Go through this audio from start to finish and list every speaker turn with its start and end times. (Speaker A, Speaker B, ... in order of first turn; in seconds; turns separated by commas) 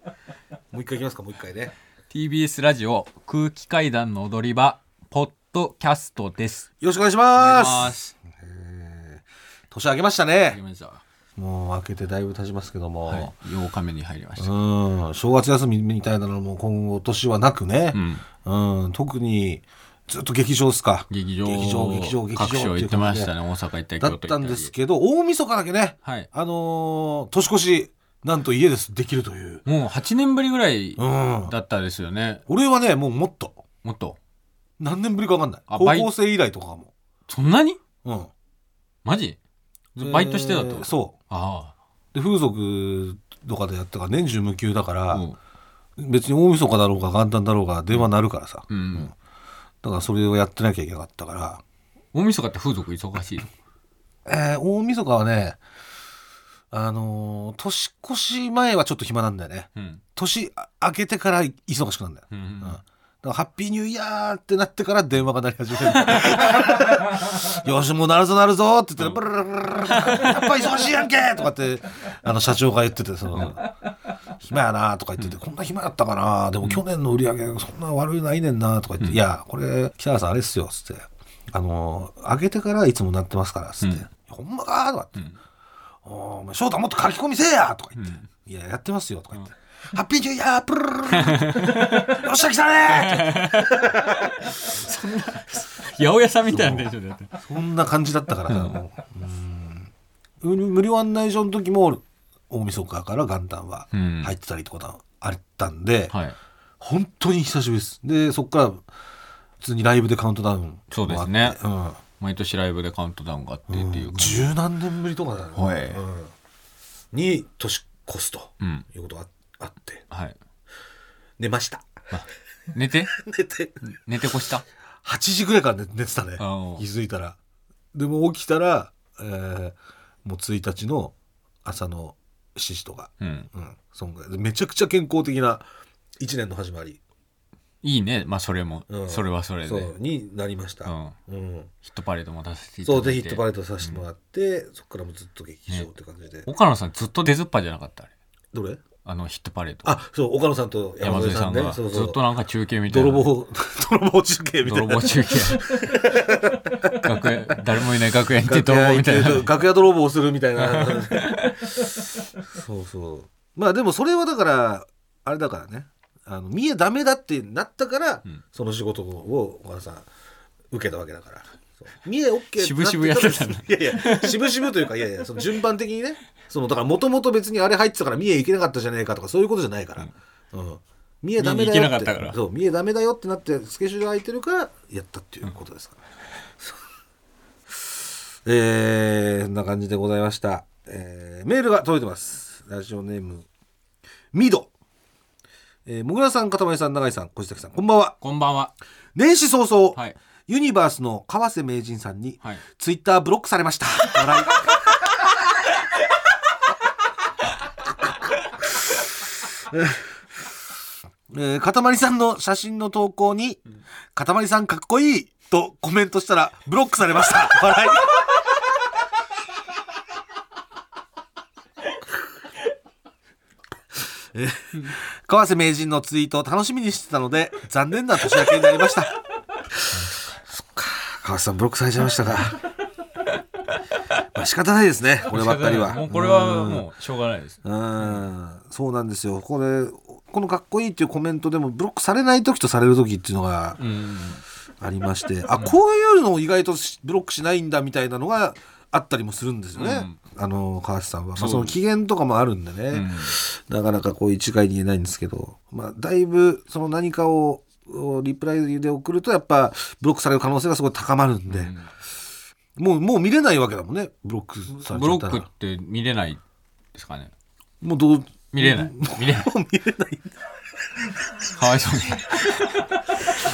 Speaker A: 0.7-1.7, Speaker B: 2.1-6.7, Speaker A: 6.8-10.6, Speaker B: 7.4-8.2, Speaker B: 10.5-11.0, Speaker A: 11.4-13.3, Speaker B: 13.1-14.5, Speaker A: 14.4-23.4, Speaker B: 17.9-18.2, Speaker B: 21.1-24.7, Speaker A: 24.0-29.6, Speaker B: 26.0-26.3, Speaker B: 29.7-32.4, Speaker A: 31.0-31.5, Speaker A: 32.5-33.6, Speaker B: 33.8-34.2, Speaker A: 34.8-36.9, Speaker B: 35.7-36.1, Speaker B: 37.3-37.8, Speaker A: 38.0-38.3, Speaker B: 39.0-39.4, Speaker B: 40.0-41.7, Speaker A: 40.0-41.1, Speaker A: 42.1-45.2, Speaker B: 45.1-45.4, Speaker A: 46.0-49.1, Speaker B: 48.7-49.1, Speaker A: 49.8-51.6, Speaker B: 52.1-53.5, Speaker A: 54.3-55.6, Speaker A: 56.7-73.7, Speaker B: 59.8-60.0, Speaker B: 62.3-62.8, Speaker B: 65.9-66.3, Speaker B: 69.9-70.5, Speaker A: 74.4-85.2, Speaker A: 86.0-94.3, Speaker B: 88.0-88.3, Speaker B: 91.1-92.2, Speaker B: 92.9-97.3, Speaker A: 96.5-106.1, Speaker B: 98.5-98.8, Speaker B: 103.9-104.3, Speaker B: 106.1-106.4, Speaker A: 106.8-108.9, Speaker A: 109.6-112.0, Speaker B: 110.9-111.6, Speaker B: 112.2-114.5, Speaker A: 113.7-116.3, Speaker B: 115.6-116.0, Speaker A: 117.1-120.0, Speaker B: 120.1-120.4, Speaker A: 121.4-122.1, Speaker B: 122.1-123.2, Speaker A: 123.1-123.8, Speaker B: 123.8-124.6, Speaker A: 125.0-127.4, Speaker B: 126.4-126.8, Speaker A: 127.9-131.1, Speaker A: 131.7-135.7, Speaker B: 133.2-133.5, Speaker A: 136.2-137.0, Speaker B: 137.8-139.9, Speaker A: 138.9-141.7, Speaker B: 140.8-141.2, Speaker B: 141.8-144.0, Speaker A: 142.8-146.5, Speaker B: 146.5-148.1, Speaker A: 148.5-148.8, Speaker B: 149.0-149.9, Speaker A: 149.8-152.2, Speaker B: 151.0-153.3, Speaker A: 152.9-157.3, Speaker B: 154.6-155.7, Speaker B: 156.9-159.5, Speaker A: 158.4-161.6, Speaker B: 160.7-161.7, Speaker A: 162.5-170.1, Speaker A: 170.7-186.0, Speaker B: 172.6-174.5, Speaker B: 181.4-182.4, Speaker A: 188.4-193.5, Speaker A: 194.3-194.7, Speaker A: 195.9-198.2, Speaker B: 198.2-198.7, Speaker A: 199.2-205.4, Speaker A: 208.9-210.2, Speaker A: 211.3-213.6, Speaker A: 214.2-218.2, Speaker A: 224.0-229.2, Speaker B: 229.9-230.3, Speaker A: 230.5-232.6, Speaker A: 234.2-236.9, Speaker B: 235.3-238.2, Speaker A: 237.6-243.8, Speaker B: 243.8-244.4, Speaker A: 244.8-261.7, Speaker B: 249.8-250.2, Speaker B: 251.4-251.8, Speaker B: 252.9-253.4, Speaker B: 261.5-261.9, Speaker A: 262.8-265.5, Speaker B: 264.7-266.4, Speaker B: 266.9-267.3, Speaker A: 267.8-270.4, Speaker B: 268.5-269.5, Speaker B: 271.5-273.0